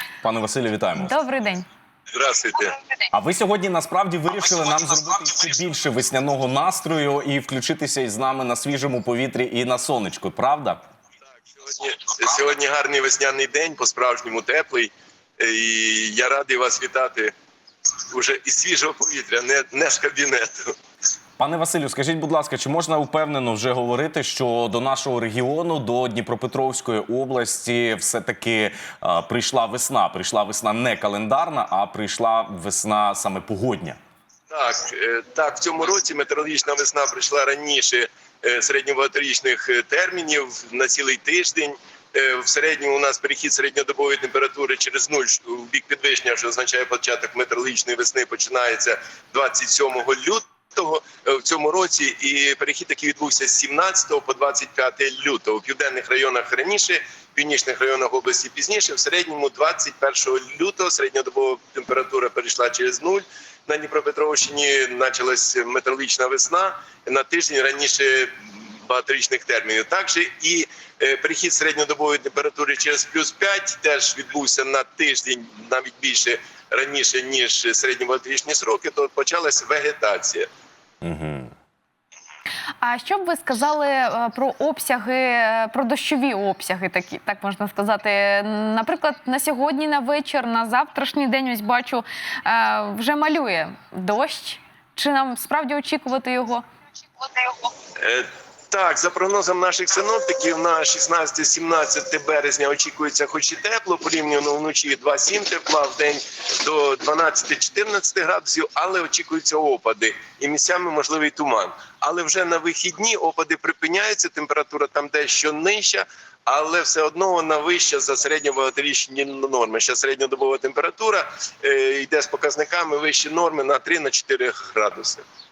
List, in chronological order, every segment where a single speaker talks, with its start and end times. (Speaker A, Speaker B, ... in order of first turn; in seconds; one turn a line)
Speaker A: 0.2-1.1
Speaker B: 1.0-1.7
Speaker C: 2.1-2.8
Speaker A: 3.1-10.8
Speaker C: 11.5-17.3
Speaker C: 18.1-20.7
Speaker A: 21.4-34.0
Speaker C: 34.5-68.3
Speaker C: 68.8-80.5
Speaker A: 81.0-81.5
Speaker B: 82.8-96.6
Speaker C: 98.0-125.2